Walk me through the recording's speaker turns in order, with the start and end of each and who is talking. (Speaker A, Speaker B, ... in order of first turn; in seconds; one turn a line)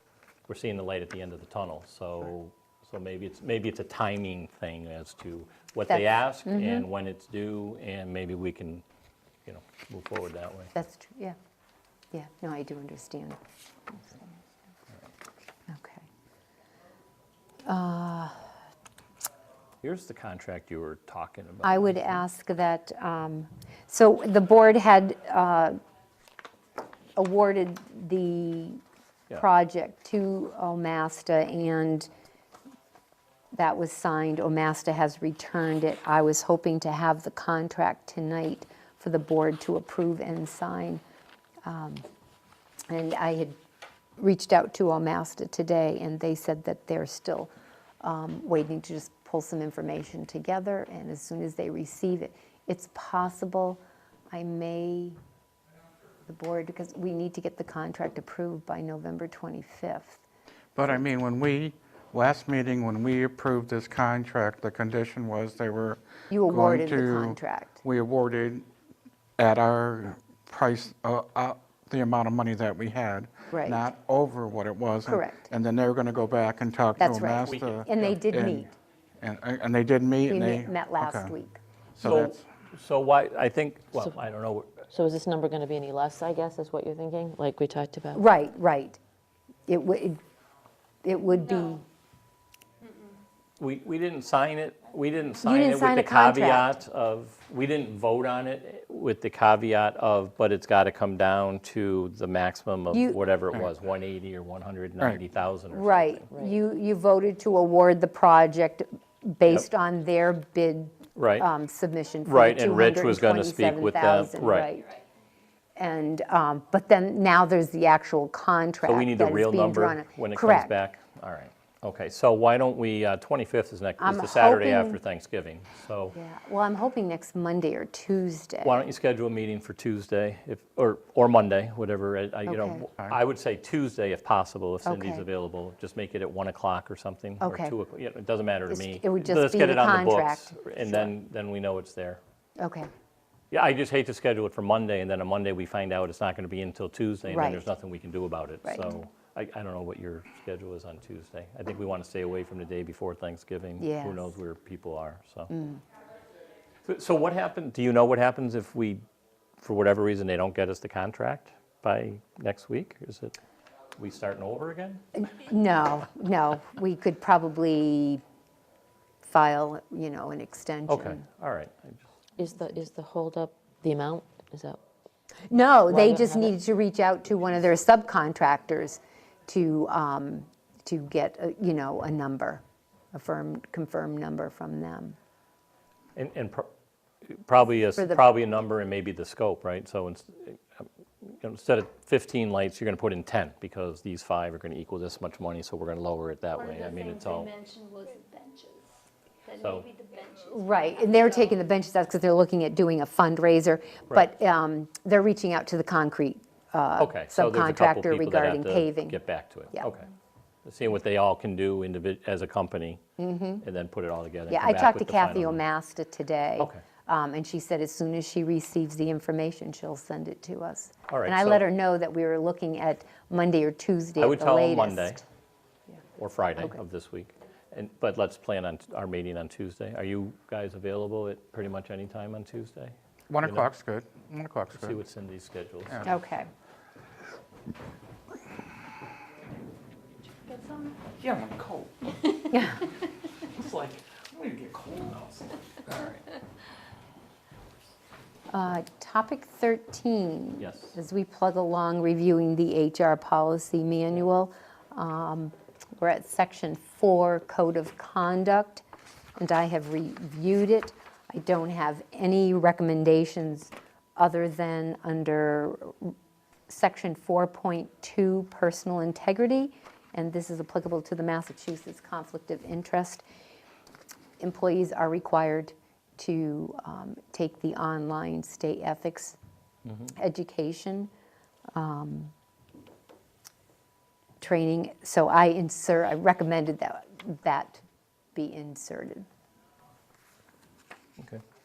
Speaker A: 0.5-8.8
Speaker B: 5.9-6.9
Speaker A: 9.5-10.7
Speaker B: 10.8-11.4
Speaker B: 12.1-13.4
Speaker B: 15.7-16.0
Speaker B: 17.7-18.5
Speaker A: 19.8-22.2
Speaker B: 21.6-25.8
Speaker B: 27.2-28.8
Speaker B: 29.4-32.1
Speaker B: 33.5-41.0
Speaker B: 41.6-42.0
Speaker B: 42.9-43.6
Speaker B: 44.2-47.5
Speaker B: 48.0-53.8
Speaker B: 54.3-55.2
Speaker B: 56.3-60.2
Speaker C: 60.8-68.7
Speaker B: 66.3-67.8
Speaker C: 69.4-81.4
Speaker B: 73.5-73.8
Speaker B: 75.0-75.5
Speaker B: 77.0-78.7
Speaker A: 77.5-78.2
Speaker B: 80.3-81.6
Speaker C: 82.0-82.4
Speaker A: 82.0-84.8
Speaker D: 84.9-88.2
Speaker B: 88.2-89.0
Speaker B: 89.7-90.2
Speaker B: 91.0-91.8
Speaker A: 93.6-106.2
Speaker B: 95.4-96.8
Speaker B: 102.9-103.2
Speaker B: 105.7-114.9
Speaker A: 111.2-111.5
Speaker A: 112.2-114.7
Speaker B: 115.8-120.8
Speaker A: 118.9-126.2
Speaker B: 124.0-125.0
Speaker B: 126.1-128.9
Speaker A: 128.6-142.2
Speaker B: 132.5-132.8
Speaker B: 134.8-135.2
Speaker B: 137.4-137.8
Speaker B: 138.7-141.1
Speaker B: 142.6-142.9
Speaker A: 143.5-155.5
Speaker B: 147.3-147.6
Speaker B: 148.7-148.9
Speaker B: 153.8-154.3
Speaker B: 155.5-155.8
Speaker A: 156.8-159.0
Speaker A: 159.6-163.4
Speaker A: 164.0-165.0
Speaker B: 165.2-168.2
Speaker B: 169.2-171.2
Speaker A: 170.9-172.1
Speaker D: 172.4-174.8
Speaker B: 175.5-182.6
Speaker D: 175.9-176.5
Speaker B: 183.1-185.2
Speaker A: 186.2-186.7
Speaker A: 187.3-197.5
Speaker E: 196.6-198.9
Speaker E: 199.4-201.6
Speaker A: 199.6-199.9
Speaker B: 200.5-209.2
Speaker A: 207.0-210.1
Speaker A: 210.7-213.0
Speaker B: 213.2-213.6
Speaker A: 213.6-215.6
Speaker B: 214.5-225.2
Speaker A: 221.1-221.7
Speaker A: 224.2-225.2
Speaker A: 226.2-233.7
Speaker C: 233.3-235.0
Speaker A: 234.7-236.2
Speaker C: 235.9-236.2
Speaker B: 236.1-236.5
Speaker E: 240.5-240.9
Speaker F: 241.2-241.9
Speaker B: 242.5-242.8
Speaker F: 243.6-245.4
Speaker B: 248.5-258.8
Speaker A: 250.6-251.0
Speaker B: 259.4-266.1
Speaker B: 266.7-273.2
Speaker B: 274.4-279.4
Speaker B: 280.1-281.1
Speaker B: 281.7-282.3
Speaker B: 284.4-287.8
Speaker B: 288.4-289.2